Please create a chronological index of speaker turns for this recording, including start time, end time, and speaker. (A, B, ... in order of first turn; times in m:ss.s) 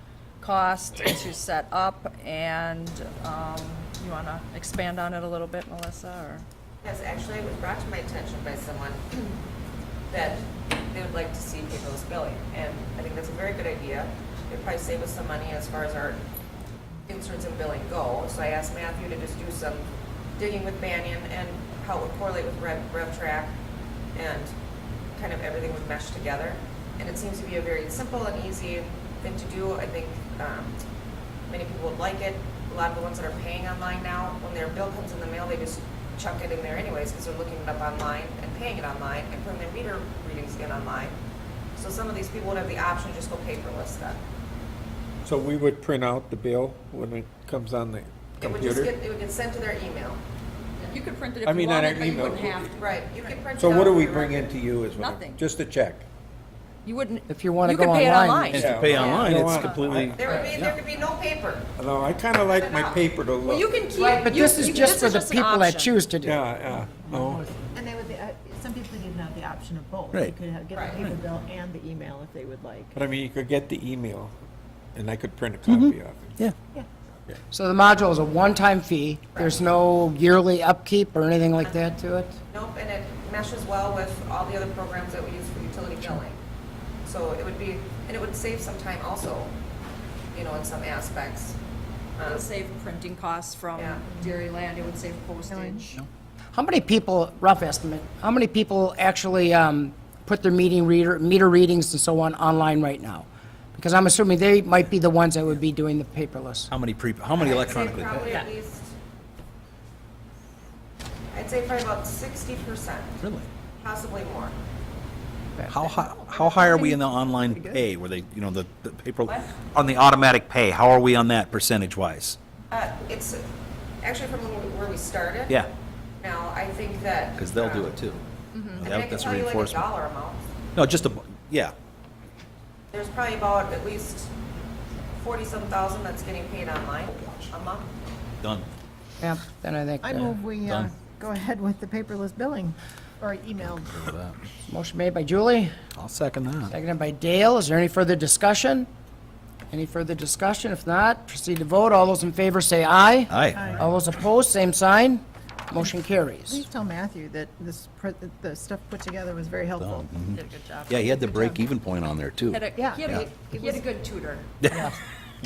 0:00.4-0:06.4 A
0:06.8-0:09.3 B
0:10.1-0:16.2 B
0:17.0-0:19.9 B
0:20.4-0:23.5 B
0:24.1-0:24.5 B
0:25.2-0:30.8 B
0:31.5-0:41.2 B
0:41.8-0:44.2 B
0:45.2-0:48.9 C
0:48.4-0:50.2 B
0:50.8-0:53.0 A
0:51.4-0:52.8 C
0:52.8-0:54.5 B
0:53.6-0:56.1 C
0:55.0-0:55.4 A
0:56.8-1:00.5 A
0:57.3-0:58.6 D
0:58.5-1:00.8 E
0:58.6-1:00.4 C
1:00.2-1:01.7 B
1:01.8-1:03.7 C
1:02.6-1:03.0 B
1:03.4-1:06.0 A
1:04.0-1:06.4 D
1:06.2-1:07.7 C
1:07.0-1:13.0 F
1:10.7-1:11.2 B
1:13.0-1:14.4 C
1:15.0-1:16.4 C
1:15.7-1:16.6 E
1:17.5-1:22.4 D
1:22.5-1:26.4 B
1:27.0-1:29.6 B
1:30.3-1:31.6 B
1:32.2-1:32.4 B
1:32.2-1:36.0 A
1:33.8-1:34.0 B
1:35.4-1:35.9 F
1:36.5-1:46.7 D
1:46.7-1:48.2 E
1:47.3-1:48.9 B
1:51.3-1:53.2 B
1:53.2-1:53.5 E
1:53.8-1:54.6 B
1:55.7-2:02.4 E
1:55.9-1:57.8 F
2:02.7-2:03.4 B
2:04.0-2:05.6 B
2:06.2-2:08.0 B
2:07.4-2:09.9 E
2:08.5-2:08.8 A
2:08.8-2:10.4 B
2:10.7-2:11.7 E
2:12.9-2:14.3 B
2:15.2-2:17.9 B
2:17.2-2:17.5 E
2:18.4-2:18.7 E
2:19.2-2:20.4 D
2:20.0-2:24.1 F
2:23.9-2:24.4 E
2:24.7-2:25.7 D
2:26.0-2:26.7 E
2:26.7-2:28.9 D
2:29.7-2:36.7 D
2:33.3-2:33.8 E
2:33.5-2:33.9 F
2:35.7-2:40.2 F
2:39.8-2:43.2 E
2:40.3-2:41.7 A
2:42.5-2:44.6 A
2:42.7-2:43.9 F
2:44.6-2:44.9 E